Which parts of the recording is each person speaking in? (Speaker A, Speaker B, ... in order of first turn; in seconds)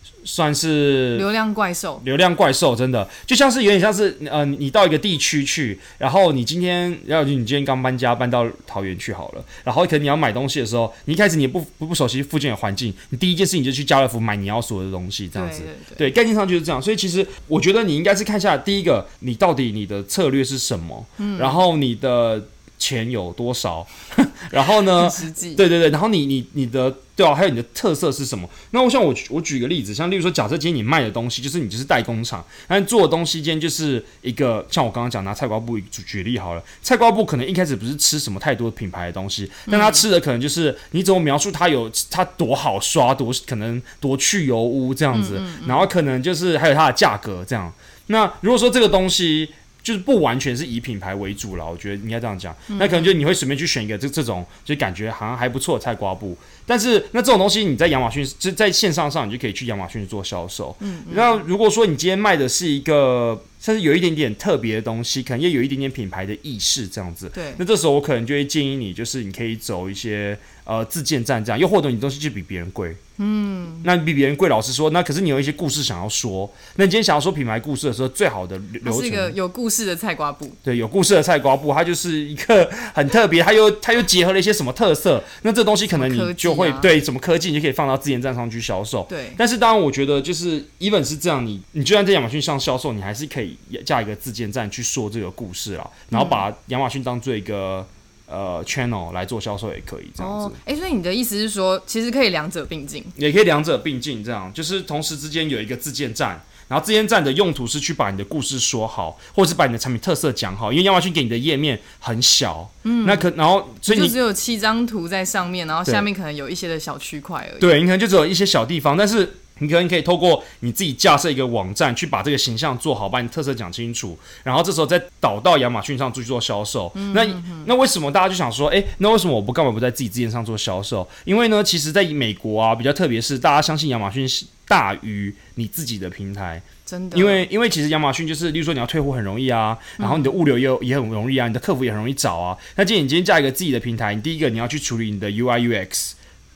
Speaker A: 0.2-1.3, 2.0-73.0, 73.8-79.3, 80.6-100.6, 103.2-114.2, 117.6-146.2
Speaker B: 1.1-2.0, 15.3-16.0, 21.2-21.6, 24.6-25.6, 39.7-40.0, 45.1-45.9, 52.7-53.1, 60.8-61.4, 67.3-67.6, 73.2-73.9, 78.8-80.6, 85.9-86.9, 89.1-89.4, 96.1-96.4, 100.2-103.1, 112.8-113.3, 113.9-117.7, 127.0-127.7, 136.9-137.4, 140.0-140.4